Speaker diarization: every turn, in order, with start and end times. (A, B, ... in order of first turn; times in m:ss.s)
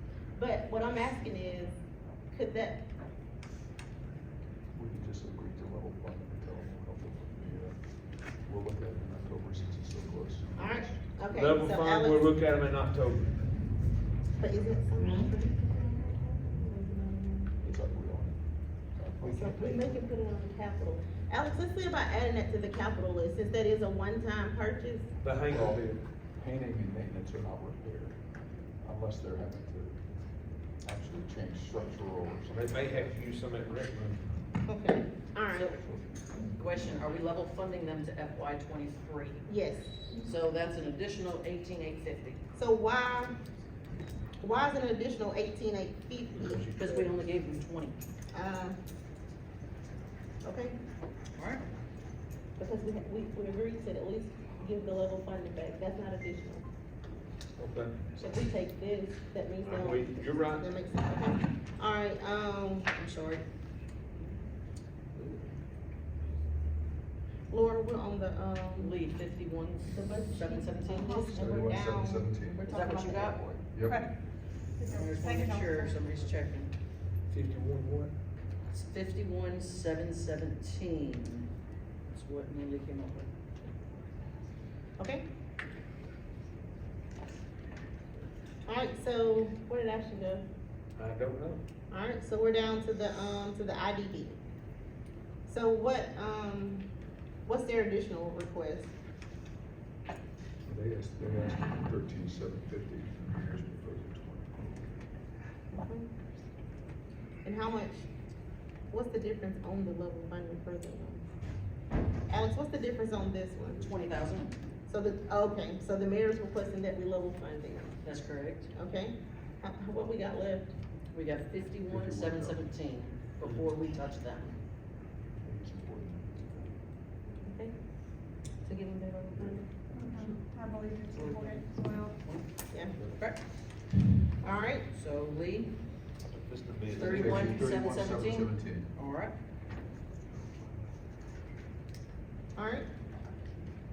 0:00.4-0:01.8 A
0:02.3-0:02.8 A
0:04.7-0:07.8 B
0:08.4-0:11.0 B
0:10.6-0:12.3 A
0:11.3-0:13.3 C
0:14.4-0:17.5 A
0:17.6-0:18.4 B
0:18.9-0:19.8 B
0:19.2-0:25.1 A
0:19.3-0:19.8 C
0:25.2-0:26.0 C
0:25.5-0:25.8 B
0:26.4-0:28.2 B
0:28.8-0:30.0 B
0:30.8-0:33.1 B
0:32.5-0:34.2 C
0:34.6-0:35.7 A
0:35.5-0:35.8 D
0:35.8-0:36.6 B
0:36.6-0:39.5 D
0:39.5-0:40.3 A
0:40.2-0:42.4 D
0:42.6-0:43.3 A
0:44.4-0:46.6 A
0:46.4-0:47.0 C
0:46.8-0:48.0 D
0:48.3-0:48.8 A
0:50.4-0:50.8 A
0:51.4-0:51.6 D
0:52.6-0:56.6 A
0:57.6-0:58.0 C
0:58.2-1:02.9 A
0:59.6-1:00.6 C
1:02.9-1:03.4 D
1:05.2-1:05.4 C
1:07.5-1:08.9 A
1:08.8-1:11.2 D
1:09.9-1:13.5 A
1:10.9-1:11.5 E
1:11.3-1:14.1 B
1:12.6-1:13.4 D
1:13.8-1:14.1 E
1:14.8-1:16.0 E
1:14.8-1:16.7 D
1:17.3-1:18.1 C
1:18.7-1:21.4 D
1:22.1-1:23.3 D
1:25.0-1:25.2 A
1:28.6-1:30.4 A
1:31.0-1:31.6 C
1:31.9-1:34.4 A
1:35.5-1:36.8 A
1:37.4-1:38.9 A
1:40.6-1:44.9 B
1:45.8-1:46.1 A
1:47.4-1:48.1 A
1:48.9-1:51.2 A
1:52.3-1:53.8 A
1:53.8-1:54.5 D
1:54.9-1:58.0 A
1:58.0-1:58.7 D
1:58.7-2:00.7 A
2:01.1-2:04.6 D
2:01.9-2:02.6 B
2:05.4-2:06.7 B
2:07.4-2:07.7 A
2:08.6-2:09.7 A
2:09.3-2:10.4 B
2:09.9-2:12.2 E
2:11.1-2:12.5 D
2:13.0-2:13.4 D
2:14.4-2:14.8 A
2:14.8-2:15.7 D
2:16.2-2:17.8 C
2:16.9-2:19.3 D
2:16.9-2:18.9 B
2:22.6-2:22.8 A